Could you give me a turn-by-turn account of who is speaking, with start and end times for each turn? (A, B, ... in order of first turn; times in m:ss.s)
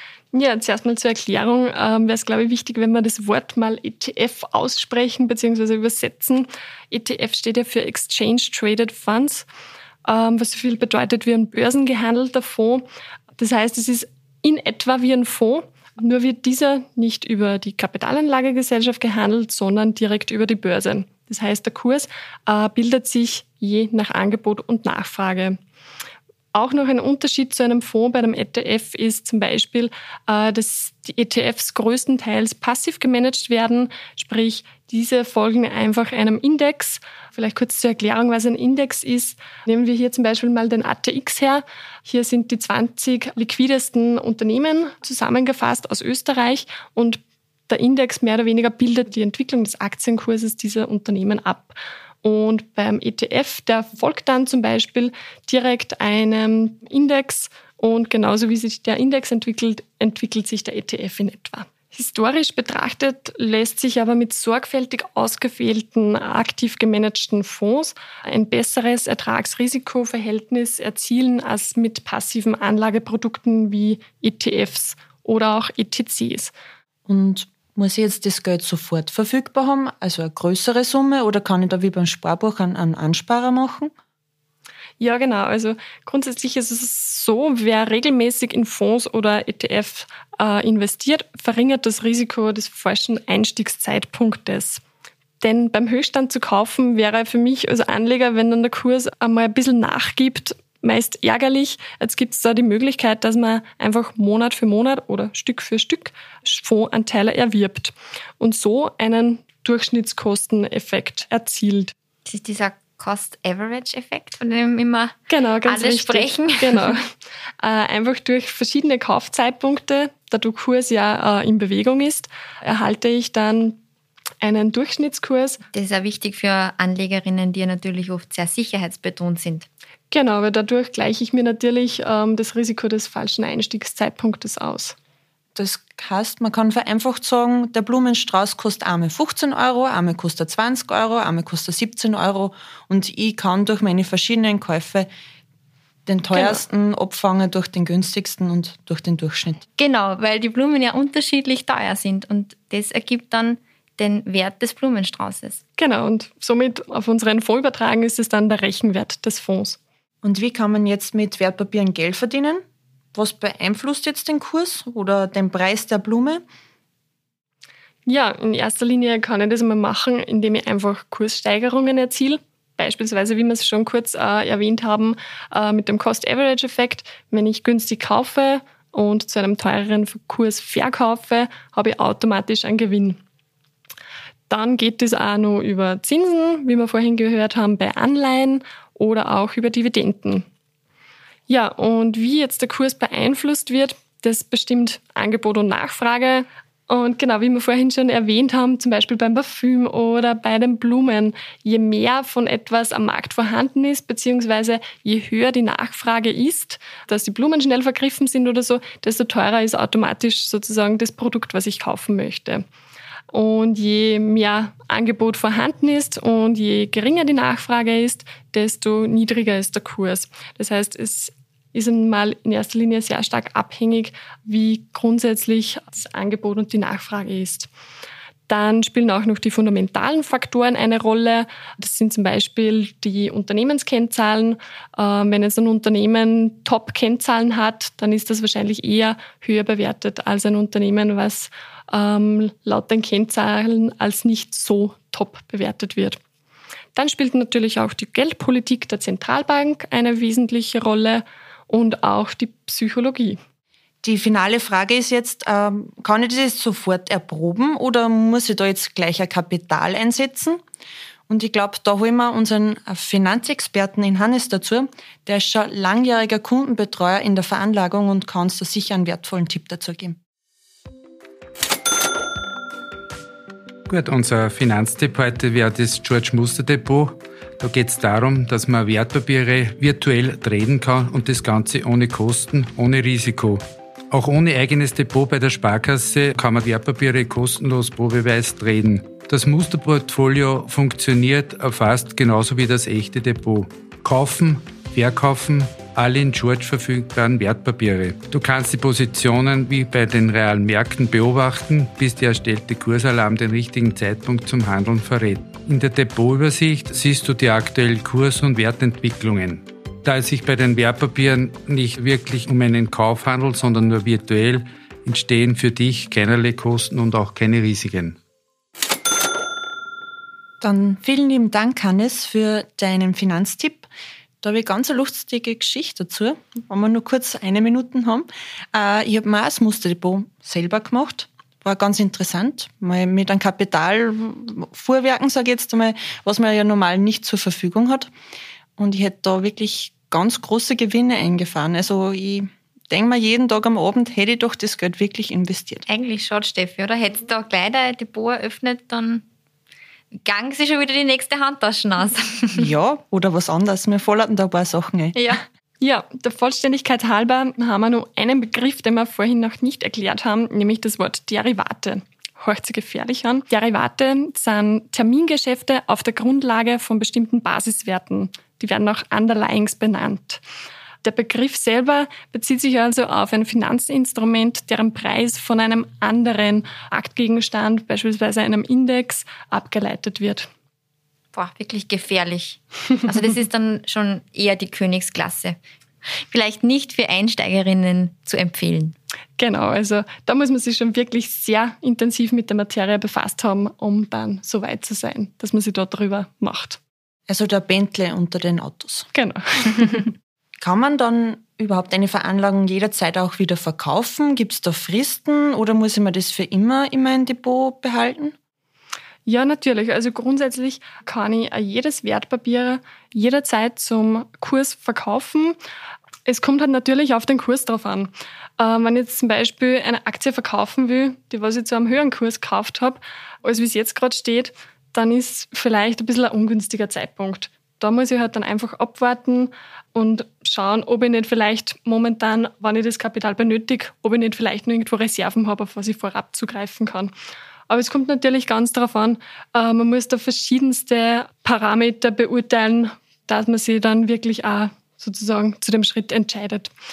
0:00.3-0:09.4 A
0:10.0-0:12.8 A
0:13.4-0:25.6 A
0:26.5-1:16.5 A
1:17.1-1:23.9 B
1:25.0-1:34.8 A
1:35.4-1:51.9 A
1:52.2-1:57.0 C
1:55.3-1:57.1 A
1:57.6-2:03.8 A
2:04.4-2:05.6 A
2:05.7-2:09.7 C
2:10.1-2:14.9 A
2:15.6-2:25.1 B
2:26.0-2:29.6 B
2:26.3-2:26.6 A
2:29.8-2:35.6 C
2:35.8-2:39.8 A
2:40.2-2:42.6 B
2:43.1-2:46.4 B
2:48.0-3:03.2 A
3:04.5-3:10.4 A
3:11.5-3:32.6 A
3:33.3-3:47.7 A
3:48.5-4:06.2 A
4:07.0-4:13.4 A
4:14.0-4:20.6 B
4:21.3-4:30.2 B
4:33.9-5:18.2 D
5:20.6-5:23.9 B
5:24.4-5:38.1 B
5:38.8-5:45.8 B
5:45.9-5:49.2 C
5:50.1-5:52.7 C
5:52.6-5:55.2 B
5:55.1-5:55.4 C
5:55.8-6:10.4 A
6:11.0-6:20.5 A
6:21.3-6:25.6 C
6:26.1-6:29.0 C
6:29.4-6:36.8 A
6:37.3-6:39.1 B
6:39.1-6:40.1 A
6:40.6-6:48.3 B
6:49.2-6:55.6 A
6:56.2-7:17.1 A
7:17.7-7:26.7 A